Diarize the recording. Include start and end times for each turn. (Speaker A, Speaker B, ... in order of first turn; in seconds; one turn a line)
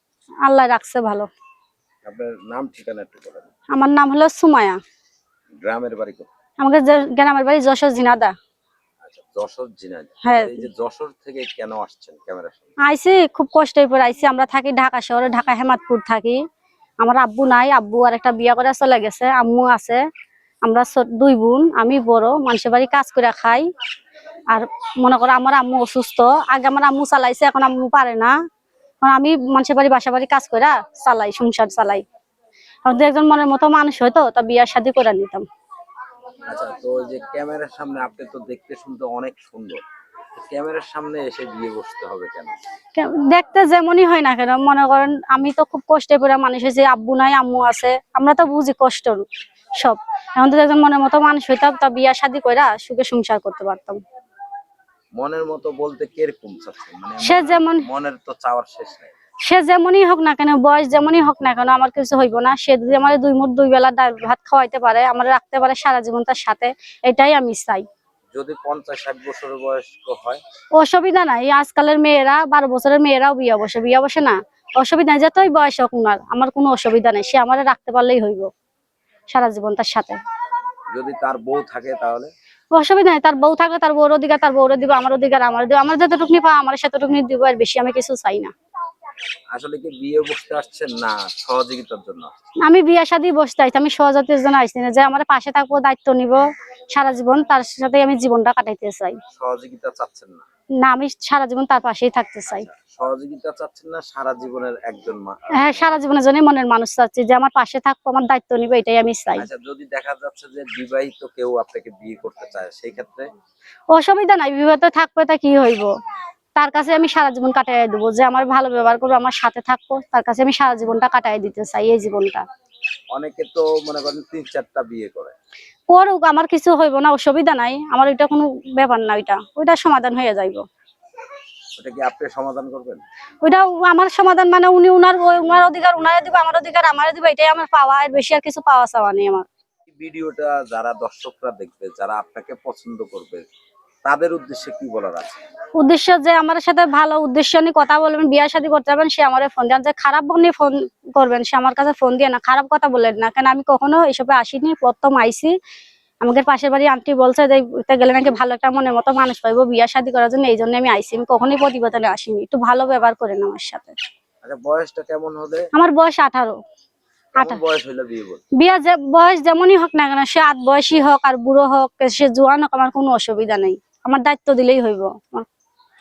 Speaker A: 0.5-1.3
Speaker B: 2.0-3.5
Speaker A: 3.7-4.8
Speaker B: 5.6-6.3
Speaker A: 6.6-8.3
Speaker B: 9.0-12.7
Speaker A: 10.2-10.7
Speaker A: 12.8-16.4
Speaker A: 17.0-20.0
Speaker A: 20.6-23.6
Speaker A: 24.5-28.3
Speaker A: 29.0-32.0
Speaker A: 32.9-35.5
Speaker B: 36.5-39.8
Speaker B: 40.3-42.6
Speaker A: 43.0-49.2
Speaker A: 49.8-54.0
Speaker B: 55.2-59.1
Speaker A: 57.2-57.8
Speaker A: 59.5-67.8
Speaker B: 68.3-70.4
Speaker A: 70.8-78.5
Speaker A: 79.3-80.2
Speaker B: 80.9-82.3
Speaker A: 82.7-88.5
Speaker B: 89.5-92.5
Speaker A: 92.6-99.2
Speaker B: 99.3-100.5
Speaker A: 100.8-102.7
Speaker B: 102.5-106.0
Speaker A: 105.5-109.5
Speaker B: 109.3-113.3
Speaker A: 113.9-115.9
Speaker A: 116.6-122.4
Speaker B: 123.1-125.3
Speaker A: 125.9-130.6
Speaker B: 131.8-133.0
Speaker A: 133.4-139.4
Speaker B: 140.0-143.4
Speaker B: 144.0-145.4
Speaker A: 145.8-155.5
Speaker A: 156.2-163.9
Speaker B: 164.4-165.7
Speaker A: 165.7-166.6
Speaker B: 167.4-168.4
Speaker A: 168.6-175.5